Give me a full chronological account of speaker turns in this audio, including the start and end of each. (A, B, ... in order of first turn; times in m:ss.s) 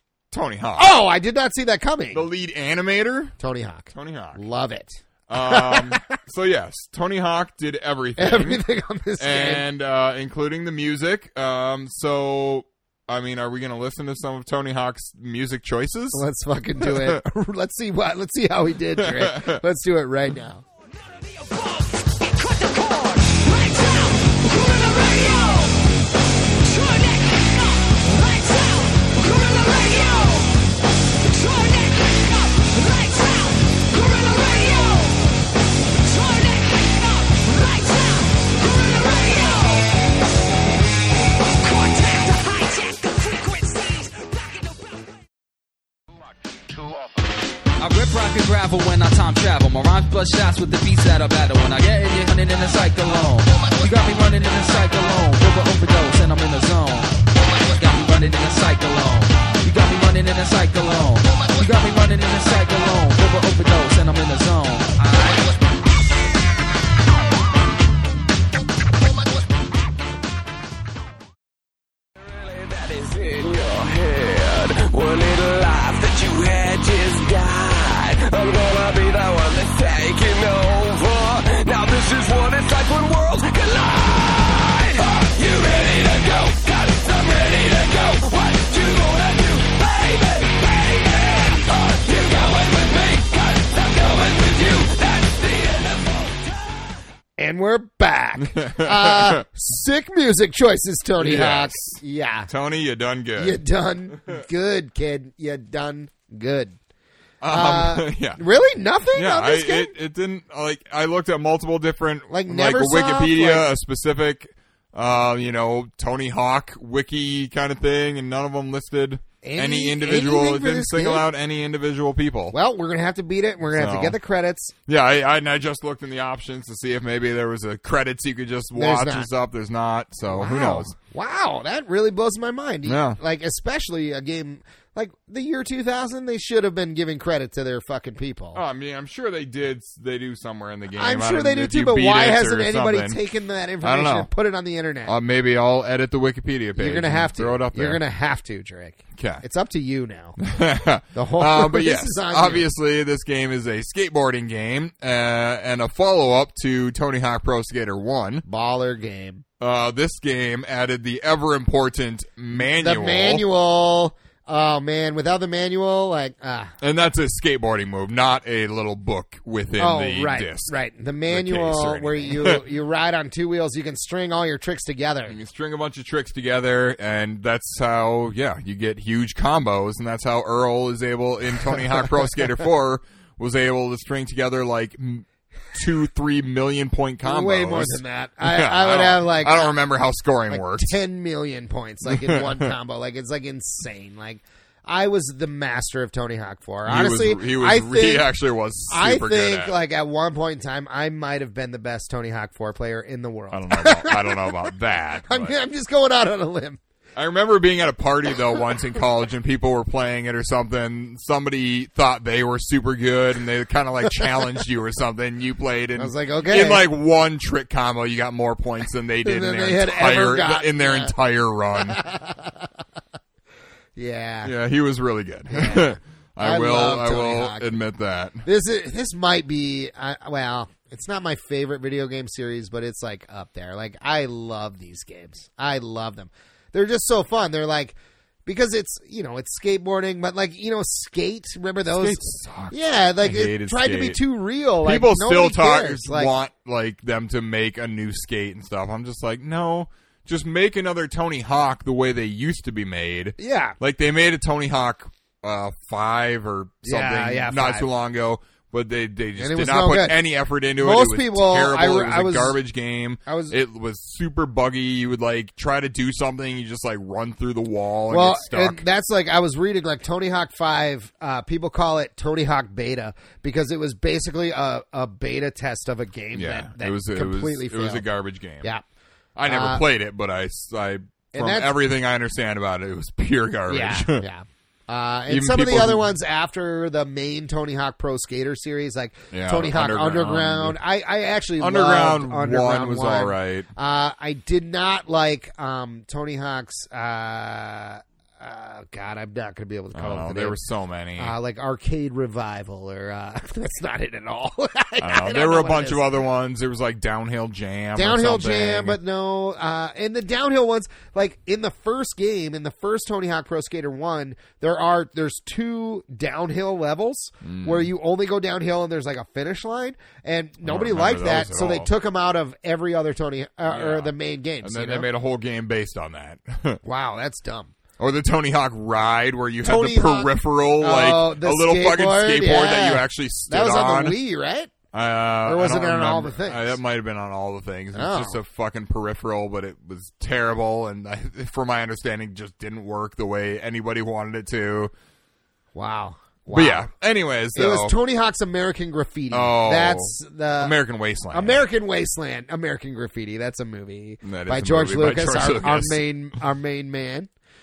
0:00.3-0:00.9 A
0:00.8-0:02.3 B
0:02.1-0:03.4 A
0:03.4-0:06.0 B
0:03.9-0:04.4 A
0:05.3-0:08.6 A
0:08.2-0:09.6 B
0:09.2-0:16.2 A
0:16.1-0:20.6 B
0:16.8-0:17.2 A
0:19.0-0:19.6 A
0:21.4-0:25.8 C
0:26.6-0:30.6 C
0:31.2-0:35.3 C
0:35.9-0:39.9 C
0:41.4-0:44.9 C
0:47.8-1:05.6 C
1:12.2-1:36.7 D
1:37.4-1:42.5 B
1:38.4-1:39.4 A
1:41.2-1:43.6 A
1:43.4-1:46.8 B
1:47.4-1:48.4 A
1:47.5-1:49.9 B
1:49.1-2:02.6 A
1:52.3-1:53.7 B
1:59.4-2:01.3 B
2:02.5-2:04.7 B
2:03.7-2:04.2 A
2:04.9-2:10.9 A
2:08.7-2:09.3 B
2:10.3-2:18.6 B
2:12.8-2:13.2 A
2:18.5-2:23.2 A
2:21.0-2:25.2 B
2:23.8-2:24.3 A
2:25.1-2:28.0 A
2:26.8-2:30.4 B
2:29.2-2:29.4 A
2:30.4-2:38.4 A
2:31.1-2:32.7 B
2:38.5-2:39.4 B
2:39.6-2:43.4 A
2:42.6-2:46.8 B
2:46.8-2:50.7 A
2:49.8-2:55.4 B
2:51.3-2:52.6 A
2:55.3-3:11.0 A
3:07.2-3:09.8 B
3:10.5-3:18.3 B
3:12.0-3:12.7 A
3:16.8-3:19.8 A
3:18.9-3:24.7 B
3:23.5-3:25.6 A
3:25.3-3:26.8 B
3:27.2-3:42.0 A
3:36.0-3:36.9 B
3:39.2-3:41.1 B
3:41.8-3:42.7 B
3:44.0-3:44.5 B
3:44.4-3:48.4 A
3:45.5-3:47.7 B
3:48.4-4:06.3 B
4:01.9-4:04.2 A
4:04.8-4:28.8 A
4:13.4-4:13.8 B
4:16.8-4:17.9 B
4:19.4-4:20.2 B
4:20.8-4:22.6 B
4:23.3-4:23.6 B
4:28.1-4:38.0 B
4:36.3-4:38.7 A
4:39.4-4:44.2 A
4:39.5-4:39.9 B
4:41.3-4:41.7 B
4:43.7-5:00.6 B
4:45.3-4:46.1 A
4:49.3-4:50.8 A
4:51.6-4:53.7 A
4:59.9-5:01.4 A
5:01.2-5:06.1 B
5:05.0-5:09.0 A
5:08.0-5:25.1 B
5:17.4-5:17.9 A
5:20.6-5:21.9 A
5:23.7-5:26.8 A
5:26.8-5:27.7 B
5:28.0-5:34.2 A
5:29.6-5:34.7 B
5:34.9-5:44.9 A
5:35.4-5:36.8 B
5:38.0-5:38.4 B
5:45.7-5:46.9 B
5:46.5-5:48.0 A
5:47.6-5:50.8 B
5:49.3-5:51.6 A
5:51.3-5:57.3 B
5:54.2-5:56.0 A